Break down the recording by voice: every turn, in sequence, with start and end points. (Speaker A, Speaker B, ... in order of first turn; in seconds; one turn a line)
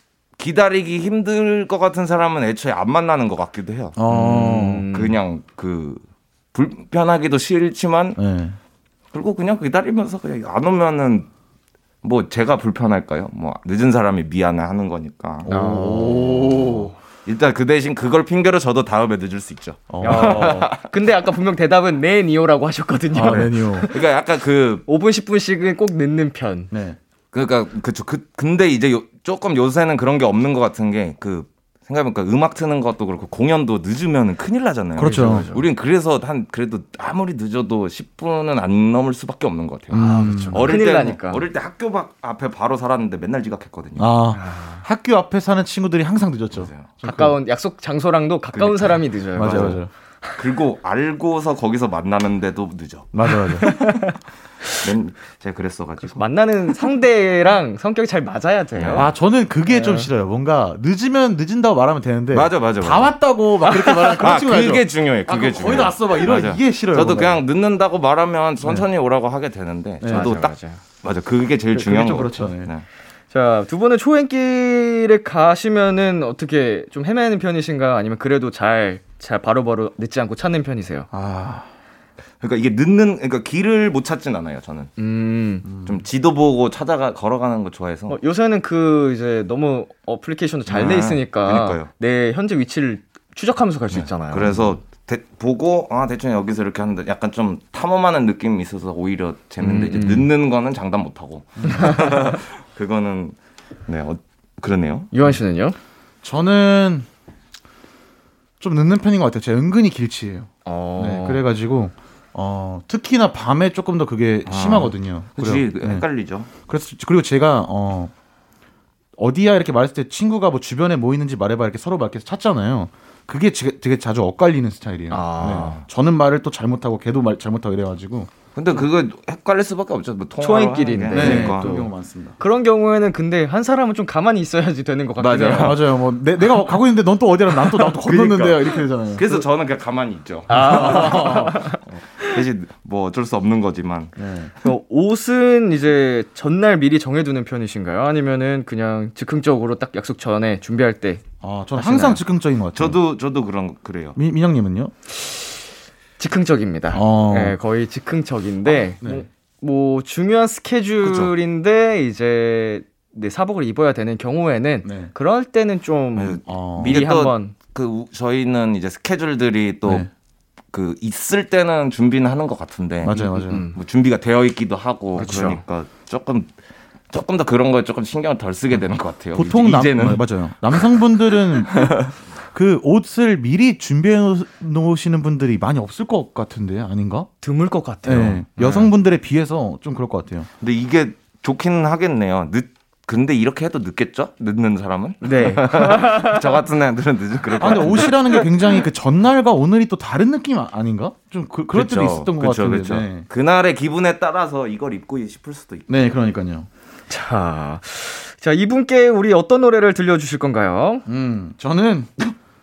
Speaker A: 0.4-6.0
Speaker B: 4.0-4.8
Speaker C: 4.1-5.2
Speaker A: 6.5-8.2
Speaker B: 8.2-8.6
Speaker A: 9.1-11.3
Speaker A: 12.0-15.5
Speaker B: 15.4-16.9
Speaker C: 15.5-16.8
Speaker A: 16.1-20.9
Speaker B: 19.9-20.7
Speaker C: 20.0-24.1
Speaker B: 23.1-23.9
Speaker A: 23.3-24.9
Speaker C: 24.9-26.7
Speaker B: 26.7-27.0
Speaker A: 27.3-44.1
Speaker B: 35.0-35.5
Speaker C: 35.0-35.7
Speaker B: 39.9-40.7
Speaker C: 40.0-41.4
Speaker B: 44.0-47.4
Speaker C: 44.3-44.9
Speaker A: 46.6-46.9
Speaker C: 47.0-50.4
Speaker A: 48.5-49.8
Speaker B: 49.4-49.9
Speaker A: 50.4-54.1
Speaker B: 53.1-53.7
Speaker C: 53.6-54.8
Speaker A: 54.7-56.3
Speaker C: 56.0-59.1
Speaker A: 58.8-59.1
Speaker B: 58.9-67.4
Speaker C: 59.7-60.1
Speaker A: 62.3-63.2
Speaker A: 64.2-72.8
Speaker B: 70.0-70.4
Speaker C: 70.1-70.8
Speaker B: 71.7-72.7
Speaker C: 73.3-81.1
Speaker B: 81.1-81.7
Speaker A: 82.4-84.9
Speaker C: 85.0-85.7
Speaker B: 85.7-86.0
Speaker A: 85.8-88.2
Speaker C: 88.1-94.5
Speaker A: 90.7-91.9
Speaker A: 93.9-103.4
Speaker C: 99.6-100.3
Speaker B: 101.6-102.1
Speaker C: 101.8-102.1
Speaker A: 103.9-105.1
Speaker C: 105.1-105.8
Speaker B: 106.2-107.1
Speaker B: 108.6-116.0
Speaker C: 110.7-111.4
Speaker A: 114.5-116.5
Speaker B: 116.7-118.1
Speaker B: 119.2-128.3
Speaker C: 125.1-125.8
Speaker A: 125.4-125.8
Speaker A: 128.6-131.7
Speaker C: 130.4-131.9
Speaker B: 131.1-132.4
Speaker C: 132.4-135.8
Speaker A: 135.2-135.8
Speaker B: 135.5-139.4
Speaker A: 137.8-144.2
Speaker C: 140.5-142.3
Speaker B: 140.5-141.6
Speaker B: 144.2-144.5
Speaker C: 144.6-151.2
Speaker B: 151.4-153.0
Speaker C: 151.8-152.2
Speaker A: 152.8-154.2
Speaker B: 154.2-154.9
Speaker C: 155.1-155.6
Speaker C: 156.2-167.6
Speaker B: 156.9-157.6
Speaker B: 158.7-159.3
Speaker A: 161.0-161.3
Speaker B: 164.8-165.1
Speaker A: 166.2-170.1
Speaker B: 166.5-167.0
Speaker A: 170.7-176.5
Speaker B: 173.0-173.6
Speaker C: 173.1-173.8
Speaker C: 175.2-175.6
Speaker A: 177.1-180.8
Speaker B: 179.3-187.3
Speaker A: 181.7-182.1
Speaker C: 187.4-188.9
Speaker B: 188.0-190.5
Speaker A: 190.6-198.4
Speaker C: 195.2-196.4
Speaker B: 197.6-203.2
Speaker A: 201.7-205.9
Speaker B: 205.9-206.7
Speaker C: 207.1-211.1
Speaker B: 211.1-212.4